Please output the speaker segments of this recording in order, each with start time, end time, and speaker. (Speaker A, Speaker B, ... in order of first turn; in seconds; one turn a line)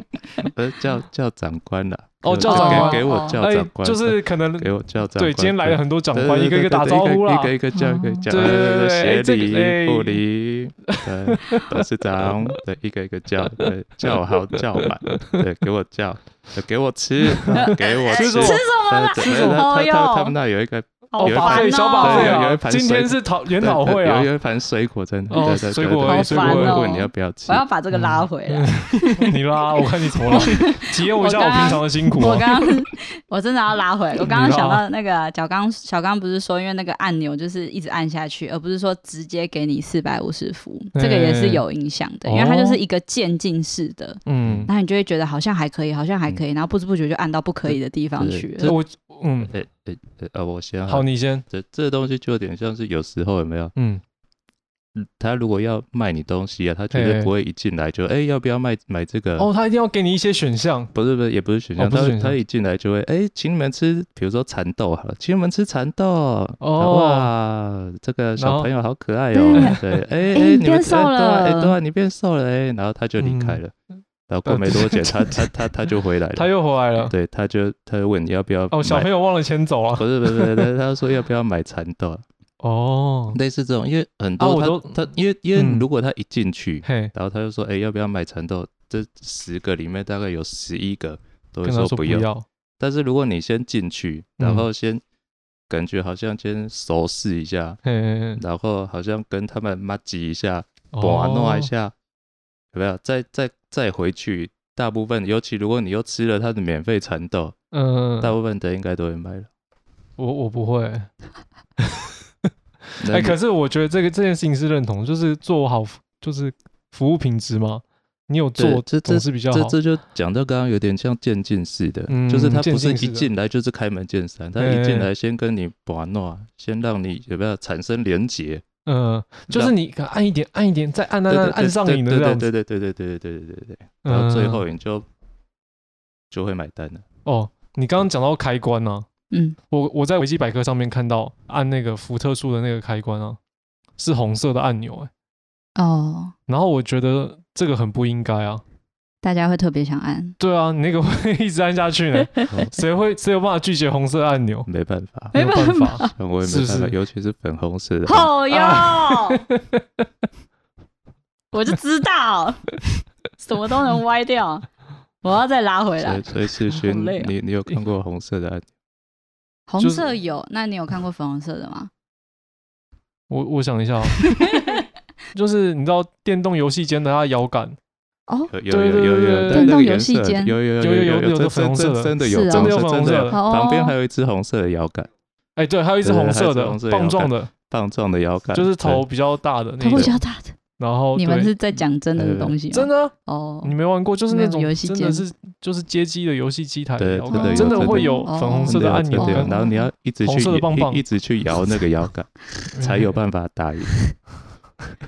Speaker A: 0.4-27.6
Speaker B: 2.2-7.5
Speaker C: 2.5-3.4
Speaker C: 7.7-8.3
Speaker B: 8.3-10.2
Speaker B: 10.9-12.6
Speaker B: 13.4-15.4
Speaker C: 17.5-20.3
Speaker B: 18.1-19.6
Speaker C: 21.1-22.4
Speaker B: 21.2-24.3
Speaker B: 25.3-26.8
Speaker C: 26.0-29.3
Speaker B: 27.9-32.5
Speaker C: 30.3-48.7
Speaker B: 34.2-34.8
Speaker B: 40.9-41.6
Speaker B: 42.2-42.8
Speaker B: 44.3-44.7
Speaker A: 44.4-44.7
Speaker A: 47.7-48.8
Speaker B: 48.6-49.5
Speaker A: 49.4-53.7
Speaker B: 50.9-51.5
Speaker B: 53.8-54.0
Speaker A: 54.9-59.5
Speaker B: 56.9-57.3
Speaker B: 59.4-60.9
Speaker A: 60.9-73.7
Speaker B: 61.8-62.4
Speaker B: 66.6-67.3
Speaker B: 68.4-68.7
Speaker C: 69.3-69.8
Speaker B: 69.5-69.8
Speaker C: 70.3-71.8
Speaker B: 73.2-73.6
Speaker A: 74.3-76.5
Speaker B: 74.5-75.5
Speaker B: 76.3-77.1
Speaker A: 77.1-79.1
Speaker B: 78.7-80.7
Speaker A: 80.0-82.2
Speaker B: 82.6-83.4
Speaker A: 83.3-95.0
Speaker B: 84.4-85.9
Speaker B: 86.8-87.1
Speaker B: 91.6-92.4
Speaker B: 94.4-94.6
Speaker A: 95.7-97.8
Speaker B: 97.8-98.4
Speaker A: 98.3-101.9
Speaker B: 100.9-101.7
Speaker A: 102.7-107.5
Speaker B: 107.7-108.3
Speaker A: 108.2-109.5
Speaker B: 110.2-111.1
Speaker B: 111.8-119.8
Speaker A: 113.0-113.4
Speaker A: 118.6-128.6
Speaker B: 122.1-123.3
Speaker B: 124.6-125.1
Speaker B: 128.8-132.5
Speaker A: 131.3-135.1
Speaker B: 134.0-134.6
Speaker A: 136.3-137.0
Speaker B: 137.2-139.1
Speaker C: 139.3-139.6
Speaker B: 139.7-143.4
Speaker B: 144.0-145.1
Speaker C: 145.8-146.3
Speaker B: 146.5-148.6
Speaker C: 149.2-150.3
Speaker B: 150.4-154.7
Speaker C: 152.2-152.5
Speaker A: 154.7-155.3
Speaker C: 155.3-156.1
Speaker B: 155.3-156.9
Speaker A: 156.0-158.3
Speaker C: 158.1-159.4
Speaker B: 158.5-160.0
Speaker C: 161.5-162.9
Speaker C: 163.4-164.7
Speaker C: 165.2-167.3
Speaker A: 166.0-168.7
Speaker C: 169.7-171.9
Speaker B: 169.8-170.1
Speaker B: 173.3-174.2
Speaker C: 174.2-174.8
Speaker B: 175.3-177.8
Speaker C: 178.3-178.5
Speaker A: 178.5-185.1
Speaker B: 178.7-179.7
Speaker C: 179.5-180.6
Speaker B: 180.8-183.4
Speaker C: 182.2-182.7
Speaker C: 183.3-183.9
Speaker B: 185.6-187.5
Speaker A: 186.0-189.1
Speaker B: 188.5-190.2
Speaker C: 189.8-190.5
Speaker B: 190.8-191.5
Speaker C: 191.1-193.7
Speaker A: 192.1-192.6
Speaker B: 192.7-199.5
Speaker C: 194.3-195.2
Speaker A: 197.0-204.0
Speaker C: 197.3-199.8
Speaker B: 200.2-201.0
Speaker B: 202.7-203.1